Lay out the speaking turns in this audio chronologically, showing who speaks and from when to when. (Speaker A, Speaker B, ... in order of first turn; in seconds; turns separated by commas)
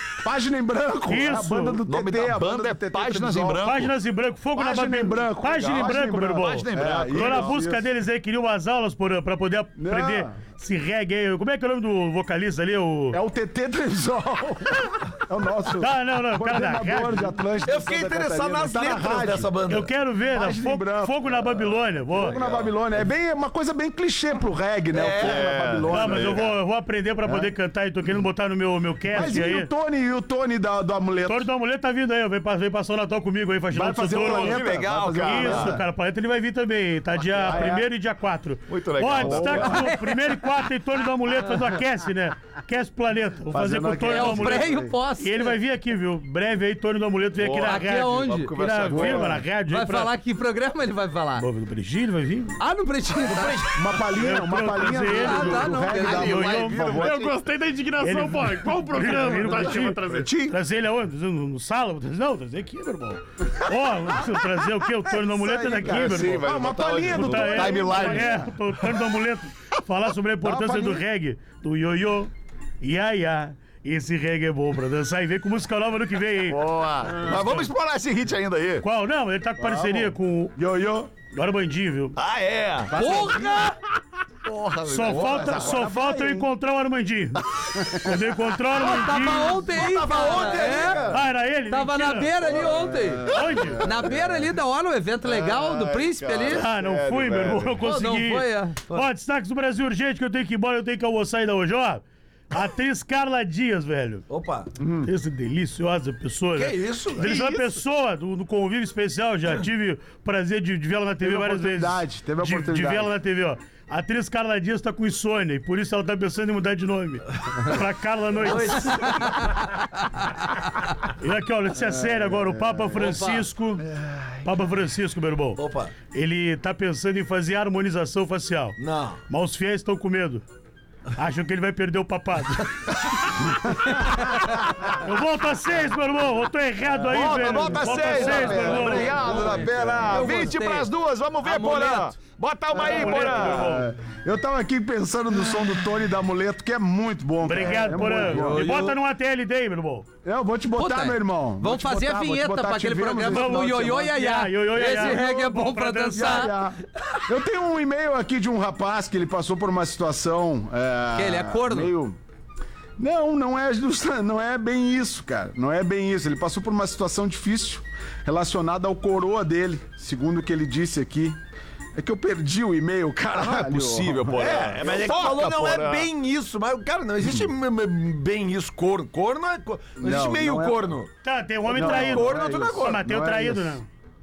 Speaker A: 0.2-3.7, Speaker B: 1.1-1.8, Speaker C: 1.9-3.9, Speaker B: 3.6-13.2, Speaker A: 4.5-7.8, Speaker C: 5.5-7.6, Speaker A: 9.8-10.4, Speaker A: 13.1-19.5, Speaker B: 15.8-17.3, Speaker D: 17.6-19.9, Speaker B: 19.7-22.4, Speaker A: 20.3-26.5, Speaker D: 24.9-25.5, Speaker C: 25.1-26.5, Speaker B: 25.9-29.7, Speaker A: 27.2-27.5, Speaker A: 29.1-31.5, Speaker B: 31.3-34.6, Speaker A: 33.7-35.8, Speaker C: 34.1-35.8, Speaker B: 35.2-50.1, Speaker C: 37.3-37.7, Speaker A: 37.4-37.9, Speaker C: 38.7-39.9, Speaker A: 39.2-39.9, Speaker E: 39.6-40.4, Speaker A: 43.5-44.9, Speaker E: 44.1-45.6, Speaker C: 47.4-49.4, Speaker E: 47.6-48.5, Speaker A: 48.9-49.4, Speaker E: 49.7-51.5, Speaker B: 51.4-52.6, Speaker E: 52.6-54.0, Speaker D: 53.3-53.6, Speaker A: 53.6-57.3, Speaker B: 54.1-56.8, Speaker E: 55.0-56.4, Speaker C: 56.0-57.3, Speaker F: 56.4-60.3, Speaker B: 58.0-66.5, Speaker C: 60.1-60.6, Speaker A: 65.4-68.5, Speaker C: 65.7-69.0, Speaker B: 67.1-72.3, Speaker A: 70.4-71.0, Speaker B: 72.8-76.6, Speaker C: 76.5-78.9, Speaker B: 77.3-77.6, Speaker B: 78.8-80.5, Speaker A: 79.6-81.1, Speaker B: 81.2-82.2, Speaker C: 82.2-83.6, Speaker A: 82.9-83.7, Speaker E: 82.9-83.8, Speaker C: 84.4-85.8, Speaker B: 84.8-87.4, Speaker A: 85.2-86.5, Speaker A: 87.8-88.1, Speaker B: 88.0-89.7, Speaker E: 88.8-91.0, Speaker D: 89.7-91.2, Speaker B: 91.1-92.5, Speaker E: 91.7-96.7, Speaker A: 92.5-93.7, Speaker B: 93.3-93.9, Speaker C: 93.3-94.2, Speaker C: 95.2-97.8, Speaker B: 96.5-104.3, Speaker E: 97.8-99.0, Speaker D: 104.3-104.7, Speaker A: 104.8-105.1, Speaker B: 105.0-119.5, Speaker D: 106.5-107.4, Speaker F: 107.2-107.7, Speaker A: 111.2-113.1, Speaker D: 118.4-119.5, Speaker E: 119.0-119.5, Speaker B: 121.2-123.9, Speaker A: 121.8-123.2, Speaker D: 123.0-123.5, Speaker B: 124.4-125.6, Speaker D: 125.6-125.9, Speaker B: 126.1-128.8, Speaker D: 128.8-129.2, Speaker B: 129.3-130.4, Speaker B: 131.2-139.2, Speaker C: 137.1-143.8, Speaker A: 137.2-140.3, Speaker E: 138.2-140.9, Speaker D: 138.5-139.6, Speaker E: 141.4-142.2, Speaker A: 142.7-148.7, Speaker B: 142.8-143.9, Speaker B: 147.4-150.1, Speaker E: 148.3-149.0, Speaker A: 150.2-154.1, Speaker E: 150.8-156.5, Speaker B: 153.3-156.5, Speaker A: 154.8-155.2, Speaker A: 156.1-162.2, Speaker E: 161.2-161.9, Speaker A: 163.0-171.4, Speaker A: 171.9-174.5, Speaker C: 173.3-176.1, Speaker D: 174.3-181.1, Speaker A: 180.0-180.8, Speaker B: 181.2-183.9, Speaker D: 181.7-183.1, Speaker A: 181.7-183.8